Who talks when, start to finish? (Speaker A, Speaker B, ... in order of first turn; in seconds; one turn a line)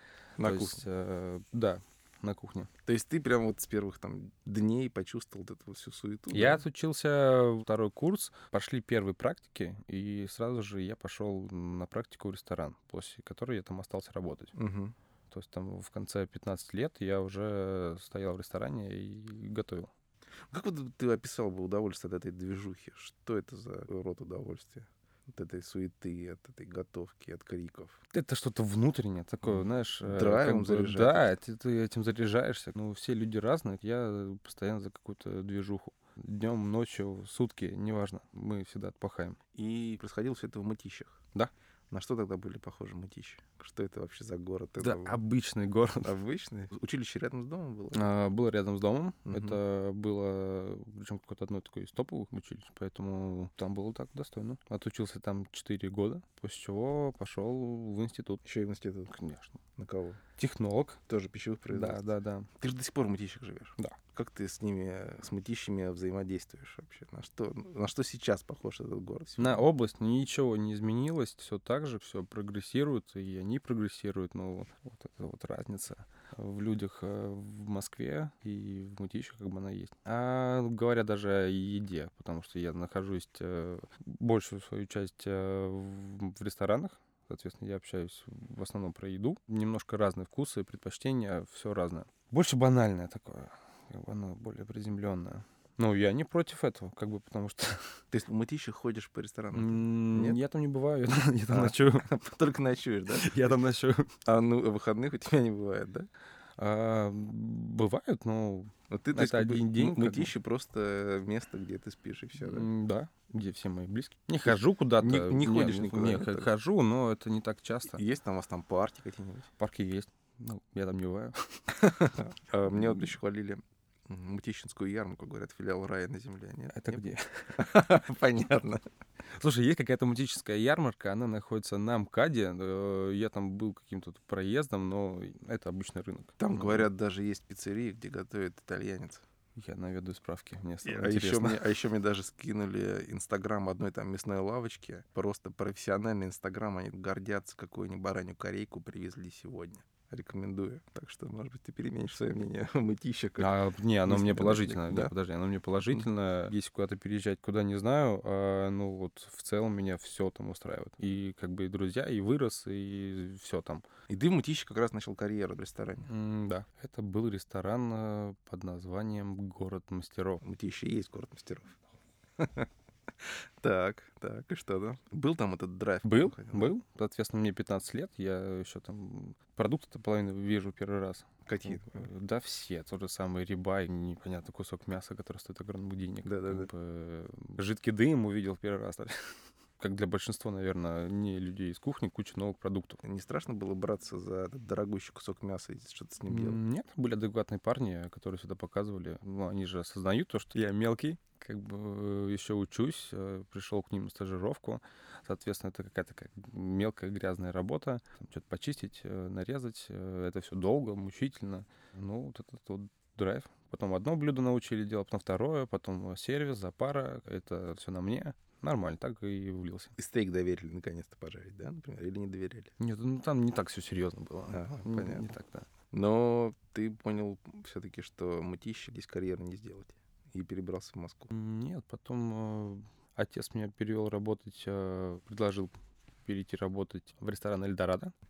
Speaker A: 0.4-0.8
Speaker B: 0.4-2.7
Speaker A: 2.9-6.6
Speaker B: 6.3-14.5
Speaker A: 14.5-14.9
Speaker B: 15.3-19.9
Speaker A: 20.5-28.0
Speaker B: 28.1-39.4
Speaker A: 30.0-31.3
Speaker A: 39.5-41.2
Speaker A: 41.9-45.2
Speaker B: 44.8-46.1
Speaker A: 46.0-48.1
Speaker B: 47.9-58.4
Speaker A: 49.2-49.6
Speaker A: 58.4-59.2
Speaker B: 59.1-59.6
Speaker A: 59.8-60.2
Speaker B: 60.4-61.0
Speaker A: 61.1-62.0
Speaker B: 61.7-62.5
Speaker A: 62.6-69.6
Speaker B: 69.4-98.0
Speaker A: 98.1-100.4
Speaker B: 99.5-102.1
Speaker A: 101.5-103.5
Speaker B: 103.1-104.1
Speaker A: 104.2-106.1
Speaker B: 106.6-110.3
Speaker A: 108.9-112.7
Speaker B: 112.4-118.0
Speaker A: 114.5-116.5
Speaker A: 117.9-119.5
Speaker B: 119.6-121.8
Speaker A: 121.8-127.0
Speaker B: 126.7-127.6
Speaker A: 127.5-128.8
Speaker B: 129.4-136.9
Speaker A: 136.4-139.2
Speaker B: 139.6-141.7
Speaker A: 140.8-155.1
Speaker B: 153.4-163.8
Speaker A: 164.1-166.1
Speaker B: 166.1-170.4
Speaker A: 170.4-171.8
Speaker A: 172.4-172.7
Speaker A: 173.2-176.8
Speaker B: 176.0-193.0
Speaker A: 181.4-182.1
Speaker A: 186.2-186.7
Speaker A: 193.0-196.6
Speaker B: 196.3-219.9
Speaker A: 220.0-222.7
Speaker B: 222.8-225.7
Speaker A: 224.5-225.3
Speaker A: 225.9-231.3
Speaker B: 231.3-235.8
Speaker B: 236.2-238.1